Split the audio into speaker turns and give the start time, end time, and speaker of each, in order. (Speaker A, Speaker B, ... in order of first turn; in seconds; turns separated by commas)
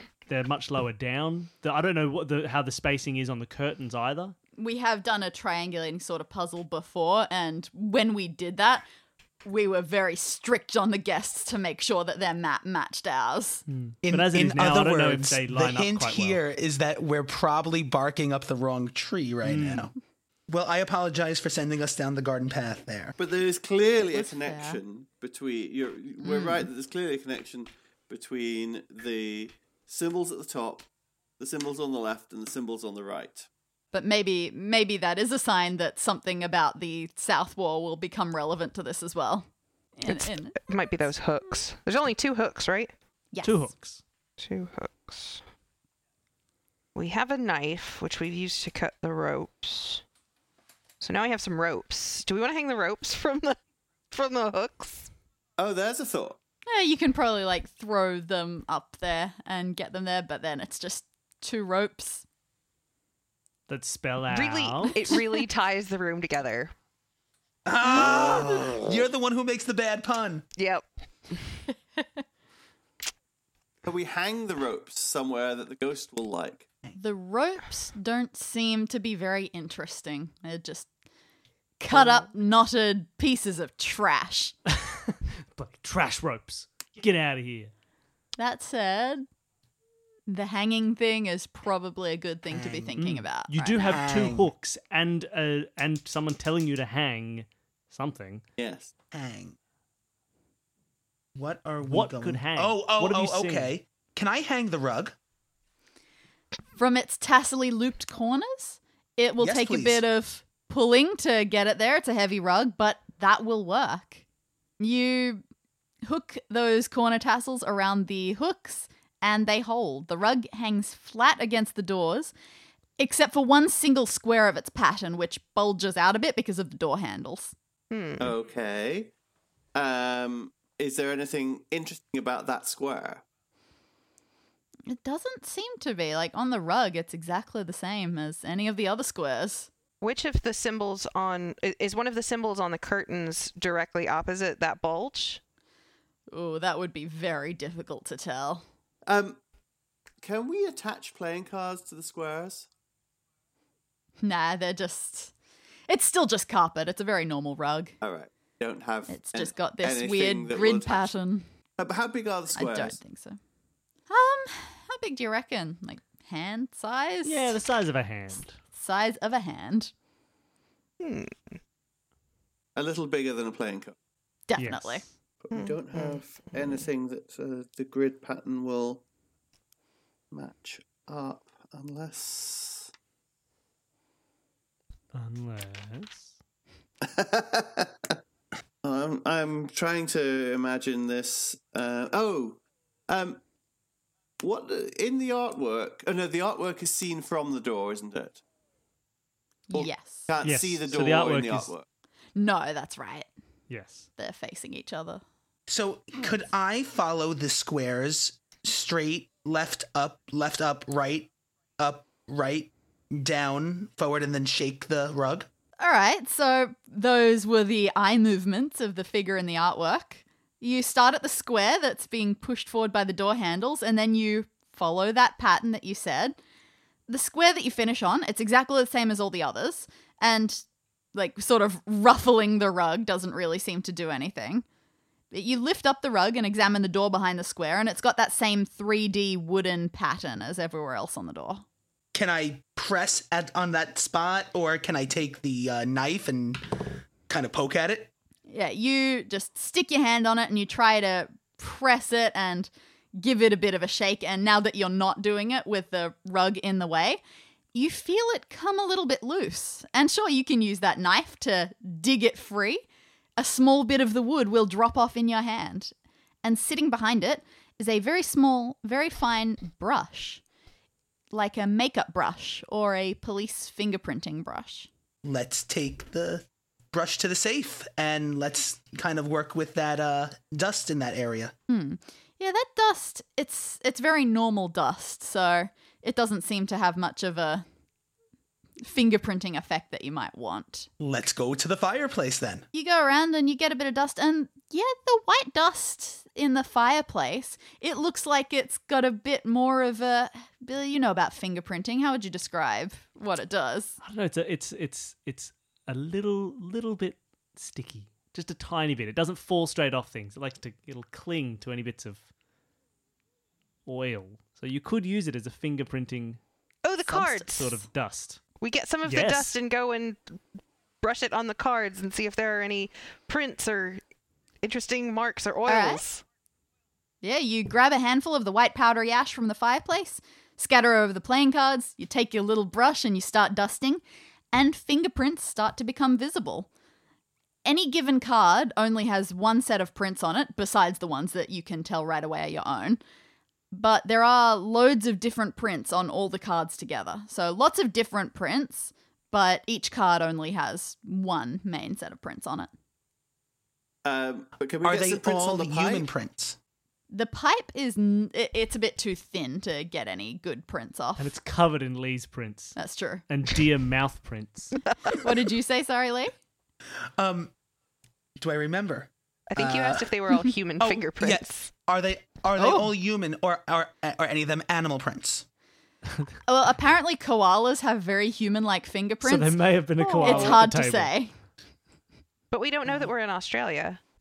Speaker A: 0.3-4.3, Speaker B: 4.6-8.8, Speaker B: 9.4-13.6, Speaker A: 13.7-16.4, Speaker C: 14.0-19.9, Speaker A: 19.4-19.9, Speaker C: 20.5-23.1, Speaker D: 23.2-30.9, Speaker B: 24.1-24.8, Speaker B: 26.2-26.6, Speaker D: 31.4-33.5, Speaker B: 33.9-40.6, Speaker E: 40.1-42.9, Speaker B: 43.3-43.7, Speaker A: 43.4-44.0, Speaker E: 44.4-45.4, Speaker E: 46.9-50.0, Speaker E: 51.0-53.6, Speaker E: 54.1-55.1, Speaker D: 55.6-56.4, Speaker B: 56.7-62.2, Speaker A: 63.7-65.0, Speaker E: 64.3-66.7, Speaker C: 67.6-70.5, Speaker B: 67.9-68.7, Speaker E: 68.0-68.7, Speaker E: 70.6-71.6, Speaker D: 73.8-76.7, Speaker B: 77.0-80.9, Speaker B: 81.8-84.5, Speaker A: 84.8-87.7, Speaker B: 88.4-89.2, Speaker B: 90.3-94.0, Speaker C: 92.5-93.0, Speaker A: 93.0-98.4, Speaker C: 93.8-94.5, Speaker D: 98.6-98.9, Speaker C: 99.1-99.5, Speaker C: 101.3-105.1, Speaker A: 101.8-103.7, Speaker B: 106.8-114.2, Speaker C: 109.4-110.0, Speaker B: 114.8-115.4, Speaker B: 116.0-122.3, Speaker B: 123.0-127.5, Speaker E: 127.9-128.3, Speaker D: 128.2-129.1, Speaker D: 129.7-133.2, Speaker B: 134.9-139.7, Speaker E: 140.0-145.4, Speaker B: 146.3-148.6, Speaker D: 149.1-149.4, Speaker D: 150.2-152.7, Speaker B: 154.2-155.3, Speaker B: 155.9-157.9, Speaker D: 158.0-161.1, Speaker B: 159.1-161.5, Speaker D: 161.8-163.0, Speaker B: 162.6-163.4, Speaker B: 164.1-167.6, Speaker A: 167.2-168.6, Speaker B: 168.3-169.9, Speaker E: 171.0-171.6, Speaker D: 172.7-173.9, Speaker B: 174.5-175.1, Speaker A: 174.6-175.1, Speaker D: 175.4-179.0, Speaker E: 175.5-176.8, Speaker D: 180.3-182.9, Speaker A: 185.1-186.3, Speaker D: 187.0-188.1, Speaker D: 188.8-193.4, Speaker D: 194.4-198.4, Speaker B: 199.7-200.3, Speaker D: 199.7-201.8, Speaker A: 200.4-201.7, Speaker B: 202.3-203.3, Speaker A: 203.7-204.1, Speaker B: 204.2-205.2, Speaker C: 205.7-215.5, Speaker B: 215.8-226.4, Speaker B: 227.1-234.6, Speaker B: 235.3-241.6, Speaker C: 242.1-248.1, Speaker B: 248.5-257.2, Speaker B: 257.7-262.8, Speaker B: 263.4-270.4, Speaker B: 271.3-274.9, Speaker C: 275.2-281.5, Speaker B: 281.7-287.6, Speaker B: 288.8-290.9, Speaker C: 291.0-292.6, Speaker B: 292.7-304.0, Speaker A: 304.0-312.3, Speaker A: 313.9-316.4, Speaker E: 316.8-317.8, Speaker B: 317.1-317.4, Speaker A: 317.5-318.4, Speaker E: 318.6-320.4, Speaker A: 319.0-319.6, Speaker E: 321.0-324.0, Speaker E: 324.6-326.2, Speaker B: 325.7-326.0, Speaker B: 327.2-336.7, Speaker B: 337.6-343.0, Speaker B: 343.7-352.7, Speaker D: 354.0-356.1, Speaker C: 354.8-356.6, Speaker B: 357.1-361.3, Speaker A: 361.2-362.8, Speaker B: 362.8-363.2, Speaker A: 363.3-364.8, Speaker B: 365.2-366.3, Speaker C: 367.2-367.5, Speaker C: 368.4-370.1, Speaker E: 369.5-371.7, Speaker C: 370.8-375.4, Speaker B: 372.6-372.9, Speaker B: 376.4-379.6, Speaker A: 379.2-381.1, Speaker E: 380.0-380.6, Speaker B: 380.2-381.3, Speaker E: 382.5-384.0